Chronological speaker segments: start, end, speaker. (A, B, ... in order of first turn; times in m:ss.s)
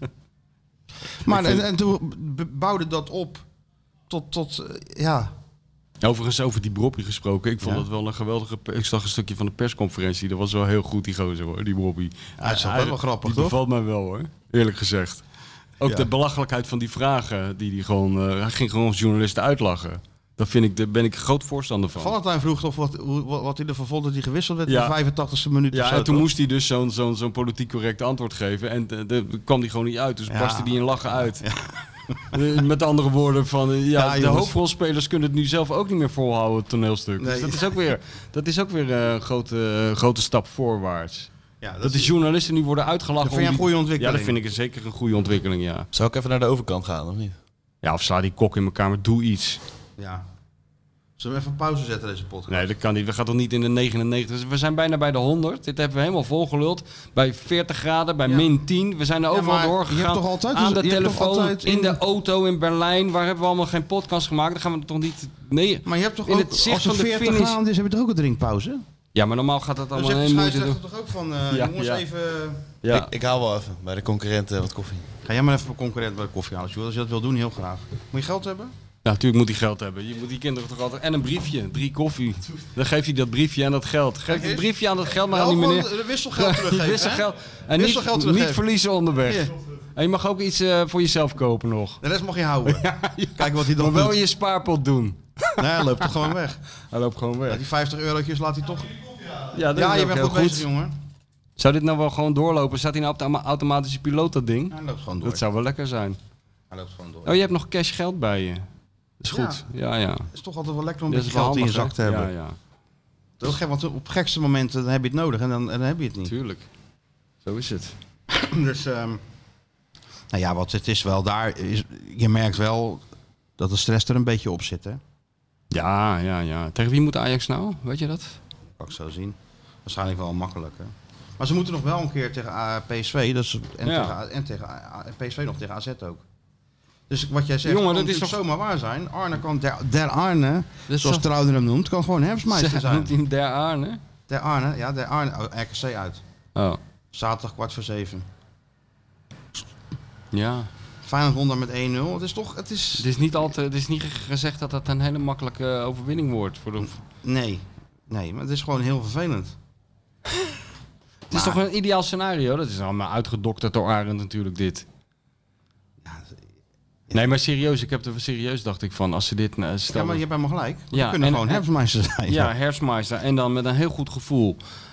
0:01.2-0:03.4 A
0:01.3-0:01.6 B
0:04.1-0:05.3 A
0:06.0-0:15.2 B
0:12.4-0:13.6 A
0:15.8-0:22.2 B
0:15.8-0:16.1 A
0:22.0-0:26.3 A
0:24.7-0:24.9 B
0:25.7-0:31.4 B
0:30.3-0:32.4 A
0:32.3-0:41.3 B
0:34.0-0:34.6 A
0:37.2-0:37.7 A
0:41.6-0:42.1 A
0:41.8-0:45.9 B
0:43.2-0:44.4 A
0:45.9-0:47.4 C
0:47.8-0:49.6 B
0:50.0-0:50.2 A
0:51.2-0:52.7 A
0:52.5-1:07.6 B
0:59.3-1:02.0 A
1:05.9-1:08.8 A
1:09.2-1:10.8 B
1:10.0-1:12.8 A
1:11.5-1:12.0 B
1:12.8-1:13.1 B
1:12.9-1:15.1 C
1:15.2-1:18.7 A
1:19.0-1:32.0 B
1:24.3-1:28.6 A
1:29.2-1:29.5 A
1:32.0-1:34.2 A
1:32.7-1:36.2 B
1:35.6-1:36.6 A
1:36.9-1:37.6 B
1:37.5-1:40.9 A
1:39.5-1:40.7 B
1:41.6-1:46.2 B
1:44.7-1:45.4 A
1:46.7-1:47.4 A
1:47.2-1:48.7 B
1:49.2-1:50.3 B
1:49.3-1:49.6 A
1:50.3-1:52.3 A
1:51.1-1:52.6 B
1:53.4-1:56.3 A
1:56.2-1:56.7 B
1:57.4-1:58.0 B
1:58.3-1:59.2 A
2:00.3-2:03.0 A
2:03.6-2:05.0 A
2:05.7-2:08.4 B
2:08.8-2:16.2 A
2:13.8-2:14.2 B
2:17.1-2:23.1 A
2:17.6-2:18.4 B
2:20.9-2:21.3 B
2:22.5-2:24.0 B
2:24.3-2:26.2 A
2:27.1-2:28.2 A
2:30.3-2:30.7 B
2:31.0-2:33.1 A
2:33.0-2:37.0 B
2:36.8-2:39.6 A
2:41.3-2:44.9 B
2:41.3-2:41.6 A
2:46.0-2:46.4 A
2:47.1-2:50.2 B
2:49.9-2:52.5 A
2:50.9-2:51.6 B
2:52.3-2:54.6 B